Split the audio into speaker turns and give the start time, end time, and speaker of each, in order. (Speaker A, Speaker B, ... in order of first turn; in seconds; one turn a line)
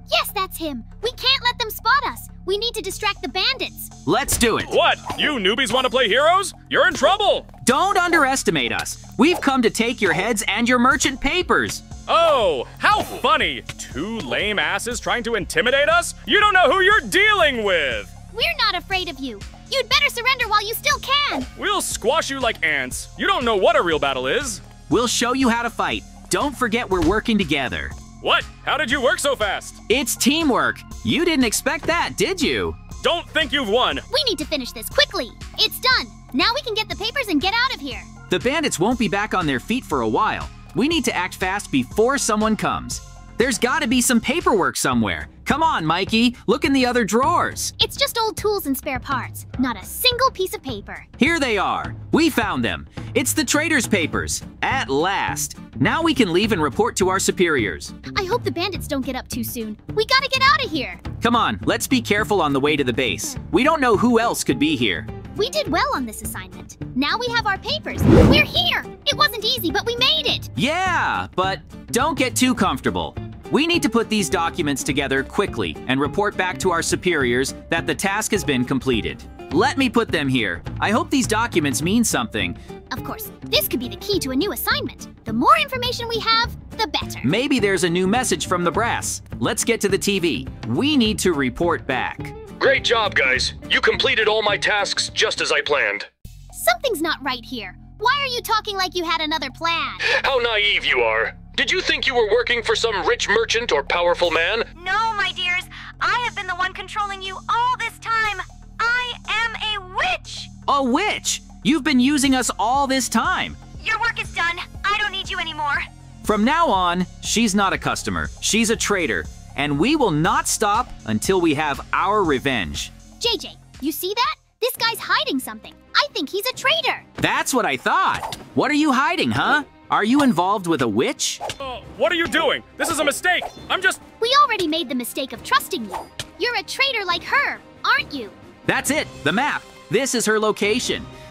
Speaker A: 0.1-3.9
Speaker B: 4.1-4.8
Speaker C: 4.7-7.5
Speaker B: 7.6-11.8
Speaker C: 12.1-18.1
Speaker A: 18.3-21.5
Speaker C: 21.6-24.6
Speaker B: 24.9-27.9
Speaker C: 28.2-29.8
Speaker B: 29.9-32.8
Speaker C: 33.0-34.0
Speaker A: 34.1-38.1
Speaker B: 38.3-47.7
Speaker A: 47.8-51.1
Speaker B: 51.2-57.9
Speaker A: 58.1-61.0
Speaker B: 61.2-65.1
Speaker A: 65.3-70.5
Speaker B: 70.6-82.6
Speaker A: 82.9-87.3
Speaker B: 87.2-92.3
Speaker D: 92.6-96.1
Speaker A: 96.5-100.1
Speaker D: 100.1-104.7
Speaker E: 104.8-110.5
Speaker A: 106.1-110.5
Speaker B: 110.7-113.6
Speaker E: 113.8-115.8
Speaker A: 113.9-115.8
Speaker B: 116.2-122.9
Speaker A: 123.2-127.1
Speaker B: 127.2-131.4
Speaker C: 131.6-134.0
Speaker A: 134.2-138.4
Speaker B: 138.7-141.1